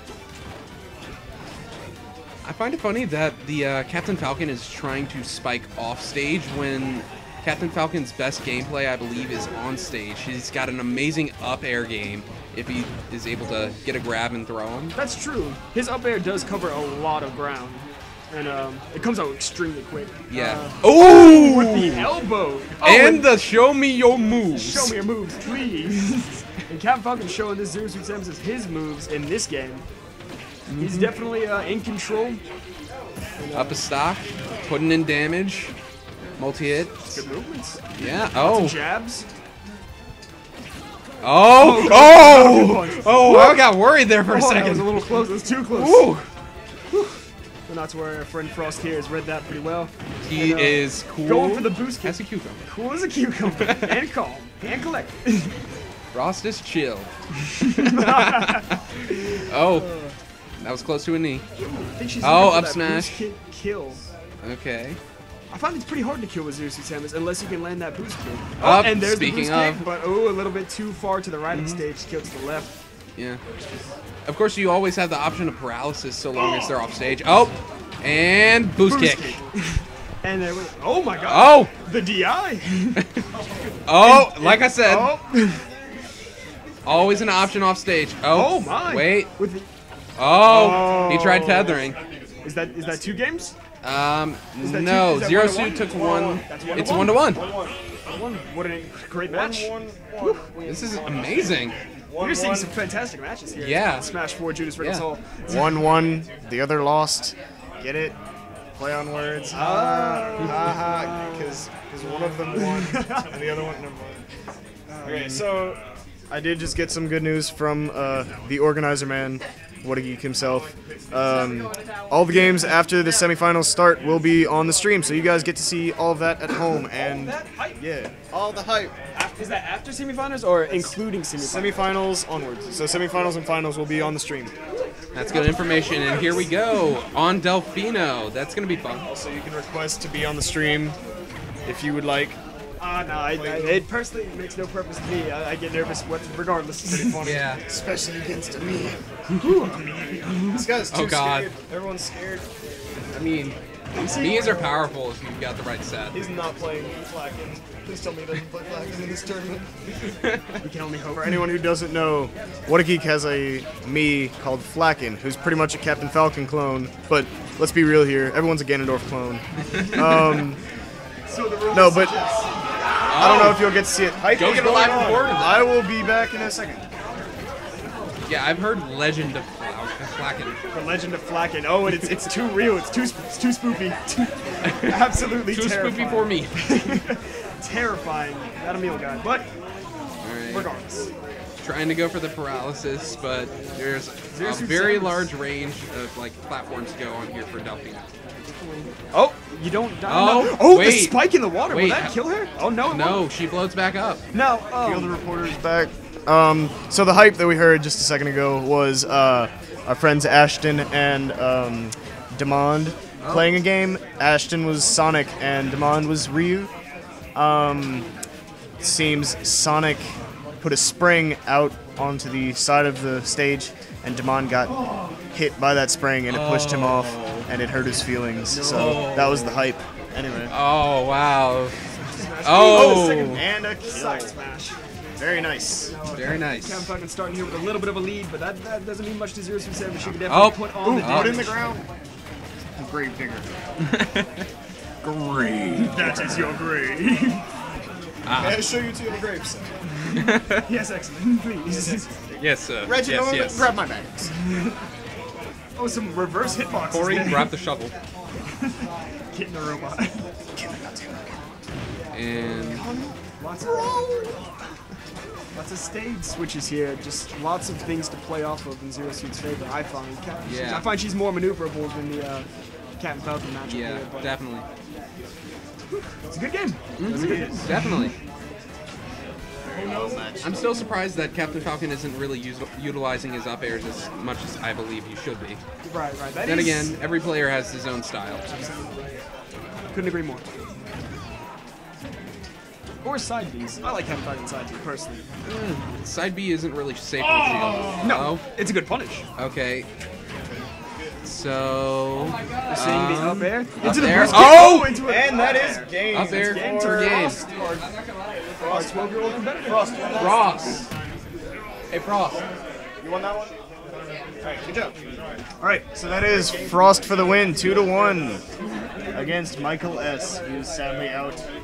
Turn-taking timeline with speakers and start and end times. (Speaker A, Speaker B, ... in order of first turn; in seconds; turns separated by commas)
Speaker A: 2.4-14.9, Speaker B: 14.9-23.3, Speaker A: 20.3-22.1, Speaker A: 22.8-24.9, Speaker B: 24.5-29.8, Speaker A: 30.7-31.1, Speaker B: 30.8-32.4, Speaker B: 33.4-33.8, Speaker A: 33.5-35.7, Speaker A: 36.4-37.2, Speaker B: 37.0-39.2, Speaker A: 37.9-38.8, Speaker A: 41.2-46.3, Speaker B: 41.5-43.6, Speaker B: 44.2-46.1, Speaker B: 47.7-55.6, Speaker A: 50.2-52.6, Speaker A: 53.6-53.9, Speaker A: 56.1-57.1, Speaker B: 57.6-58.8, Speaker A: 57.7-58.6, Speaker A: 59.5-60.0, Speaker C: 59.7-60.1, Speaker A: 60.6-61.4, Speaker B: 61.5-64.0, Speaker A: 62.2-63.2, Speaker A: 64.4-65.0, Speaker B: 65.5-72.8, Speaker A: 68.6-69.8, Speaker A: 71.5-71.8, Speaker A: 73.2-73.4, Speaker A: 74.2-79.4, Speaker B: 76.3-76.8, Speaker B: 78.8-83.0, Speaker A: 81.2-81.7, Speaker A: 83.9-85.1, Speaker B: 84.0-85.7, Speaker A: 86.8-89.3, Speaker B: 88.3-89.7, Speaker A: 90.2-92.0, Speaker C: 90.5-91.8, Speaker B: 90.5-91.4, Speaker B: 92.4-93.5, Speaker A: 93.8-97.4, Speaker B: 94.6-97.5, Speaker C: 95.9-97.8, Speaker B: 98.1-100.5, Speaker C: 99.3-102.7, Speaker A: 100.7-101.7, Speaker B: 102.2-105.8, Speaker A: 103.5-104.1, Speaker A: 104.8-105.0, Speaker C: 105.5-108.2, Speaker C: 108.8-114.2, Speaker B: 109.5-113.3, Speaker B: 114.9-115.4, Speaker C: 115.0-128.9, Speaker B: 127.2-127.8, Speaker B: 129.1-131.8, Speaker C: 131.4-134.5, Speaker A: 135.1-139.1, Speaker B: 135.2-136.9, Speaker C: 139.1-141.0, Speaker C: 141.6-142.4, Speaker B: 142.8-147.6, Speaker C: 143.3-143.9, Speaker A: 147.2-147.6, Speaker C: 147.7-149.0, Speaker B: 149.4-150.7, Speaker C: 150.5-152.5, Speaker A: 150.9-151.5, Speaker A: 153.1-153.6, Speaker B: 153.9-154.8, Speaker A: 154.1-156.2, Speaker C: 156.1-159.7, Speaker B: 160.6-161.4, Speaker C: 161.2-170.6, Speaker B: 171.3-172.5, Speaker C: 171.7-172.2, Speaker A: 173.1-173.8, Speaker C: 173.1-176.8, Speaker A: 174.3-175.7, Speaker A: 178.2-180.6, Speaker B: 180.7-189.5, Speaker A: 184.7-186.6, Speaker A: 190.2-190.7, Speaker B: 190.4-191.1, Speaker A: 191.6-198.1, Speaker B: 194.3-195.3, Speaker B: 198.6-203.3, Speaker A: 200.1-202.2, Speaker A: 202.9-204.2, Speaker B: 204.3-205.2, Speaker C: 204.8-216.7, Speaker A: 213.2-213.6, Speaker C: 217.3-218.1, Speaker C: 218.8-230.5, Speaker A: 226.3-227.5, Speaker B: 228.5-229.1, Speaker A: 228.6-229.7, Speaker A: 230.5-231.7, Speaker B: 232.0-234.8, Speaker A: 232.4-233.4, Speaker C: 232.6-234.3, Speaker C: 235.2-235.9, Speaker B: 235.8-241.6, Speaker A: 236.1-236.9, Speaker A: 240.3-241.5, Speaker C: 240.8-241.8, Speaker C: 242.8-243.5, Speaker A: 243.9-244.4, Speaker A: 245.0-246.2, Speaker B: 245.8-247.4, Speaker C: 245.9-246.6, Speaker A: 248.2-248.7, Speaker C: 248.4-249.7, Speaker B: 250.0-252.1, Speaker A: 250.1-250.6, Speaker A: 252.4-253.7, Speaker C: 252.8-254.3, Speaker B: 254.4-254.8, Speaker B: 255.8-257.5, Speaker A: 256.9-257.9, Speaker B: 258.5-260.2, Speaker C: 260.6-261.2, Speaker A: 262.1-262.8, Speaker B: 262.5-264.4, Speaker C: 263.6-264.4, Speaker B: 265.5-274.4, Speaker A: 270.4-270.9, Speaker A: 273.6-274.6, Speaker B: 276.3-278.1, Speaker A: 277.0-278.1, Speaker C: 277.1-277.8, Speaker C: 279.6-280.9, Speaker A: 280.4-285.6, Speaker B: 285.8-287.0, Speaker A: 286.4-288.4, Speaker B: 288.4-289.2, Speaker B: 289.9-290.4, Speaker B: 293.0-295.2, Speaker A: 295.4-298.4, Speaker B: 297.9-299.2, Speaker A: 299.4-299.9, Speaker A: 301.2-305.0, Speaker B: 302.6-307.9, Speaker C: 304.1-307.2, Speaker A: 306.1-307.4, Speaker C: 308.6-310.8, Speaker B: 308.6-310.3, Speaker A: 310.1-310.9, Speaker A: 311.9-312.4, Speaker C: 313.0-313.5, Speaker C: 314.4-314.9, Speaker C: 315.6-318.4, Speaker C: 319.1-321.5